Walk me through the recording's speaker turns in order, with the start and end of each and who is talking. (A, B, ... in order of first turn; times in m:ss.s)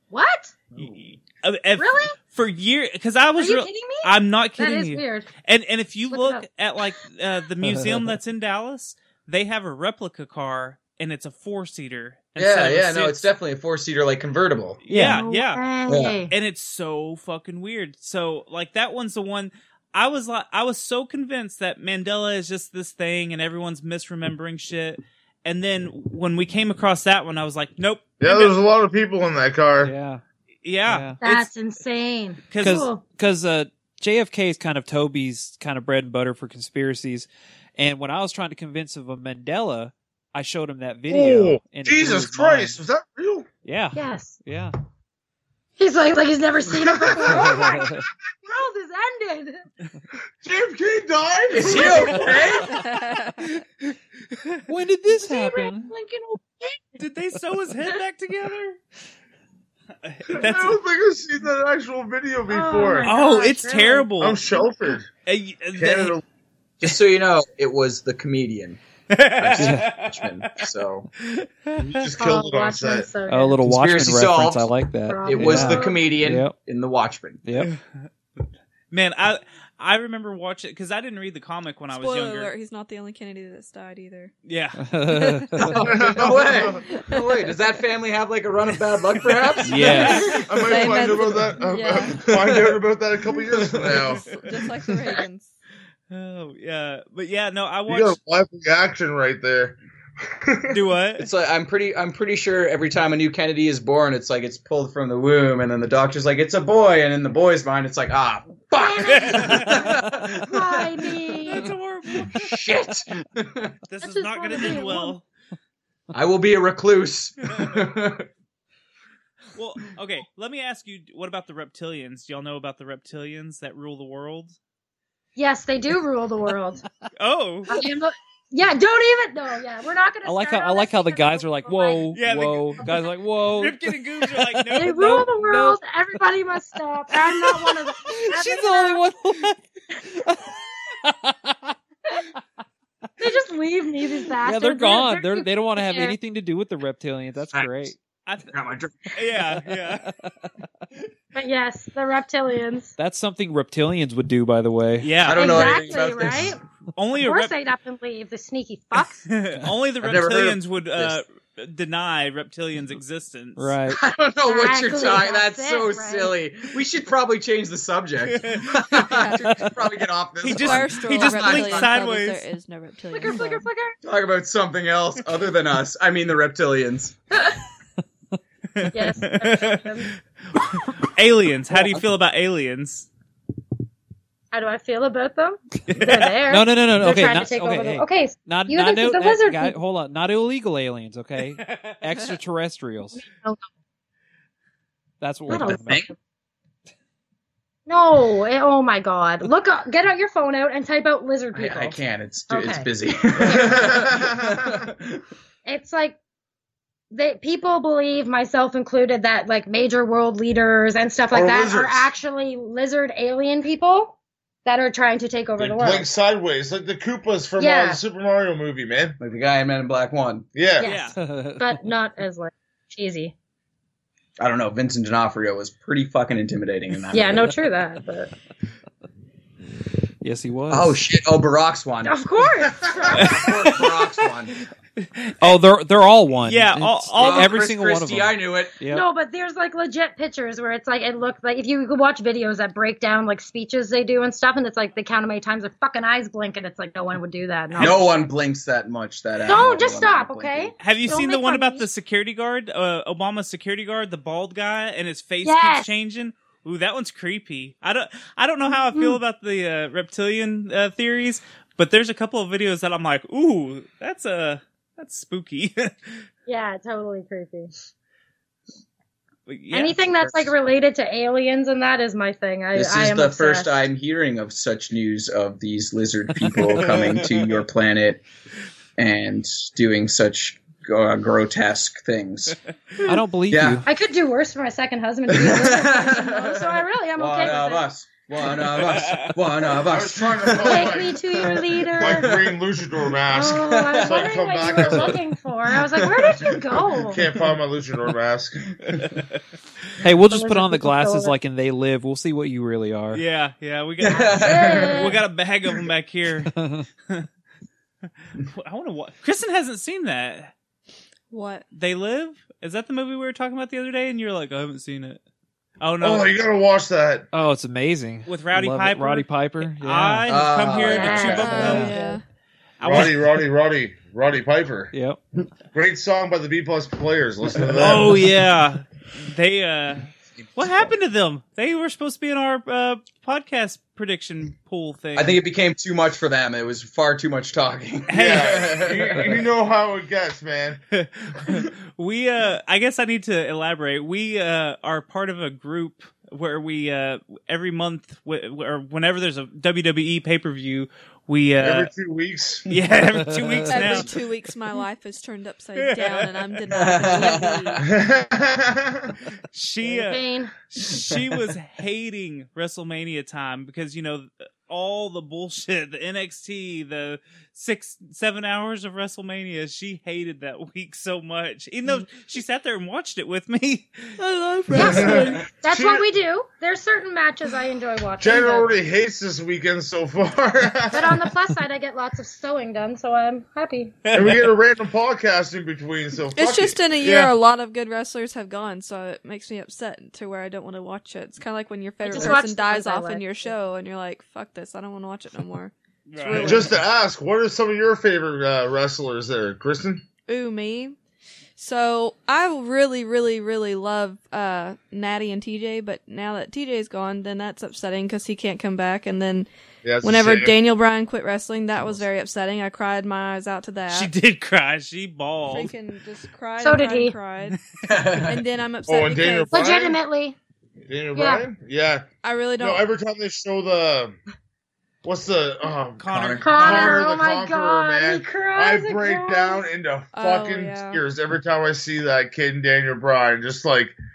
0:00.1-0:00.5 A
0:00.8-0:13.3 B
0:01.8-0:02.1 A
0:03.4-0:05.3 A
0:06.1-0:06.4 A
0:07.6-0:08.1 C
0:12.4-0:14.8 D
0:14.8-0:15.6 B
0:14.9-0:15.2 C
0:14.9-0:16.3 A
0:15.9-0:16.1 D
0:16.3-0:28.5 B
0:28.2-0:29.9 E
0:29.8-0:30.2 C
0:30.6-0:31.5 B
0:30.9-0:31.2 C
0:31.2-0:33.0 A
0:32.5-0:32.8 B
0:32.6-0:42.8 C
0:41.1-0:43.5 E
0:43.6-0:44.7 C
0:43.9-0:44.4 A
0:45.8-0:49.6 A
0:47.0-0:47.7 E
0:47.6-0:48.0 C
0:50.4-0:52.5 E
0:51.5-0:52.8 D
0:51.7-0:52.5 A
0:52.9-0:53.3 F
0:54.7-0:55.9 C
0:55.1-0:57.0 A
0:57.0-0:58.8 B
1:00.0-1:00.8 B
1:00.3-1:03.1 E
1:02.5-1:04.1 A
1:03.0-1:04.5 B
1:04.2-1:05.1 E
1:05.2-1:06.1 B
1:05.8-1:06.2 E
1:06.8-1:08.8 D
1:09.1-1:10.4 B
1:09.4-1:11.1 D
1:09.6-1:09.9 C
1:11.2-1:12.0 B
1:11.8-1:13.1 E
1:12.2-1:13.6 A
1:13.3-1:16.5 C
1:13.6-1:17.4 D
1:15.1-1:16.0 A
1:17.4-1:17.7 C
1:17.6-1:17.8 B
1:18.9-1:22.5 B
1:21.9-1:24.3 F
1:24.4-1:24.8 B
1:24.8-1:25.8 C
1:25.1-1:26.1 F
1:25.8-1:26.8 E
1:26.0-1:30.3 D
1:26.9-1:27.2 F
1:29.6-1:30.3 C
1:29.8-1:30.4 B
1:29.9-1:32.2 F
1:30.3-1:34.2 E
1:32.1-1:32.8 D
1:33.5-1:34.1 D
1:34.2-1:35.5 F
1:36.1-1:38.2 B
1:37.9-1:40.8 E
1:40.7-1:41.3 B
1:41.2-1:53.8 D
1:48.7-1:51.6 A
1:49.1-1:49.8 B
1:51.4-1:52.6 B
1:53.9-1:55.2 B
1:54.0-1:55.1 A
1:56.1-1:58.3 D
1:57.5-1:57.8 B
1:59.5-2:04.6 B
2:05.4-2:06.8 A
2:07.2-2:07.7 B
2:07.7-2:12.2 A
2:10.2-2:15.8 C
2:12.1-2:12.9 B
2:13.6-2:15.3 B
2:14.7-2:19.0 A
2:18.1-2:20.5 C
2:21.0-2:21.7 C
2:23.2-2:26.1 A
2:24.4-2:28.0 C
2:27.5-2:27.9 D
2:28.5-2:29.0 D
2:29.1-2:30.1 B
2:30.1-2:30.5 C
2:31.3-2:32.9 A
2:33.0-2:35.1 C
2:35.0-2:36.1 B
2:35.2-2:36.6 D
2:35.3-2:36.6 A
2:37.0-2:37.5 B
2:37.2-2:39.2 A
2:39.3-2:43.7 B
2:40.0-2:41.2 D
2:43.6-2:44.0 C
2:43.9-2:52.0 D
2:44.4-2:46.4 A
2:48.2-2:49.0 B
2:49.1-2:49.4 F
2:50.4-2:52.5 B
2:50.5-2:53.6 F
2:53.1-2:54.0 A
2:54.0-2:57.1 D
2:57.3-2:57.6 A
2:58.8-2:59.9 B
2:58.9-3:00.1 A
3:00.7-3:03.1 B
3:04.5-3:09.8 A
3:05.9-3:06.3 B
3:06.5-3:13.2 C
3:11.6-3:12.0 B
3:13.1-3:13.6 A
3:15.2-3:16.1 C
3:15.5-3:16.1 D
3:15.5-3:15.8 A
3:17.9-3:22.0 A
3:21.5-3:25.2 D
3:22.5-3:22.9 A
3:23.4-3:23.7 A
3:23.4-3:24.6 E
3:25.6-3:26.2 A
3:27.1-3:36.1 A
3:31.3-3:32.1 E
3:35.6-3:39.2 E
3:37.6-3:38.0 A
3:39.2-3:40.5 D
3:40.5-3:40.9 E
3:40.8-3:43.3 A
3:40.8-3:41.2 B
3:41.2-3:41.7 C
3:44.4-3:47.5 D
3:47.1-3:48.3 A
3:50.2-3:51.0 C
3:50.7-3:52.5 D
3:52.0-3:53.5 A
3:53.0-3:54.5 D
3:53.1-3:54.0 B
3:55.0-3:55.5 B
3:55.4-3:59.0 C
3:56.4-3:57.7 B
3:57.2-3:58.7 D
3:58.9-4:08.2 A
4:07.8-4:10.7 D
4:09.4-4:11.9 A
4:10.8-4:26.2 B
4:15.4-4:15.9 A
4:18.9-4:19.2 A
4:26.5-4:27.7 A
4:29.5-4:30.0 B
4:29.7-4:33.8 A
4:30.2-4:30.5 D
4:32.7-4:38.2 D
4:36.7-4:36.9 C
4:39.0-4:42.6 D
4:43.0-4:43.8 C
4:43.5-4:43.8 D
4:43.8-4:47.9 A
4:45.3-4:52.6 D
4:48.4-4:49.3 B
4:49.8-4:51.2 E
4:50.6-4:52.3 A
4:52.0-4:55.2 E
4:53.3-4:57.2 A
4:53.4-4:55.1 D
4:55.8-4:56.8 D
4:57.0-4:58.6 E
5:00.0-5:03.2 C
5:00.3-5:01.4 A
5:03.1-5:06.5 B
5:04.0-5:05.2 D
5:04.1-5:05.2 A
5:06.5-5:06.8 C
5:08.5-5:10.5 B
5:11.3-5:11.6 F
5:11.7-5:15.2 B
5:15.8-5:16.4 B
5:16.0-5:17.3 E
5:17.3-5:20.5 C
5:18.3-5:22.1 B
5:20.3-5:21.9 D
5:20.8-5:22.2 A
5:21.3-5:22.2 F
5:22.8-5:23.3 B
5:22.8-5:24.9 E
5:24.9-5:25.2 C
5:25.7-5:28.3 E
5:27.8-5:35.4 B
5:30.4-5:30.9 D
5:35.2-5:39.4 D
5:38.1-5:38.7 B
5:38.1-5:40.8 E
5:40.9-5:51.9 B
5:51.6-5:52.6 E
5:52.7-5:54.2 B
5:53.2-5:53.5 C
5:53.7-5:57.8 F
5:55.8-5:56.7 B
5:56.7-5:57.8 D
5:57.8-5:59.1 E
5:59.5-6:14.1 B
5:59.8-6:00.5 A
6:14.7-6:14.9 C
6:14.7-6:18.7 A
6:14.8-6:16.0 E
6:18.2-6:21.2 E
6:20.9-6:24.0 A
6:24.0-6:24.5 B
6:24.1-6:26.8 E
6:26.3-6:36.8 F
6:27.0-6:27.3 B
6:32.0-6:33.5 A
6:36.1-6:36.8 B
6:36.4-6:40.0 E
6:40.2-6:41.0 F
6:41.6-6:49.5 F
6:49.8-6:50.5 E
6:50.0-6:54.1 F
6:53.9-6:55.7 B
6:55.5-6:57.6 F
6:56.6-6:57.1 A
6:57.8-6:58.4 D
6:58.2-6:59.6 F
6:58.9-7:00.0 E
6:59.5-7:00.4 A
7:00.9-7:02.1 E
7:01.1-7:01.4 A
7:02.2-7:02.8 F
7:02.6-7:04.2 E
7:05.0-7:13.9 E
7:06.0-7:07.0 B
7:06.1-7:07.0 D
7:06.4-7:09.6 A
7:10.1-7:11.0 F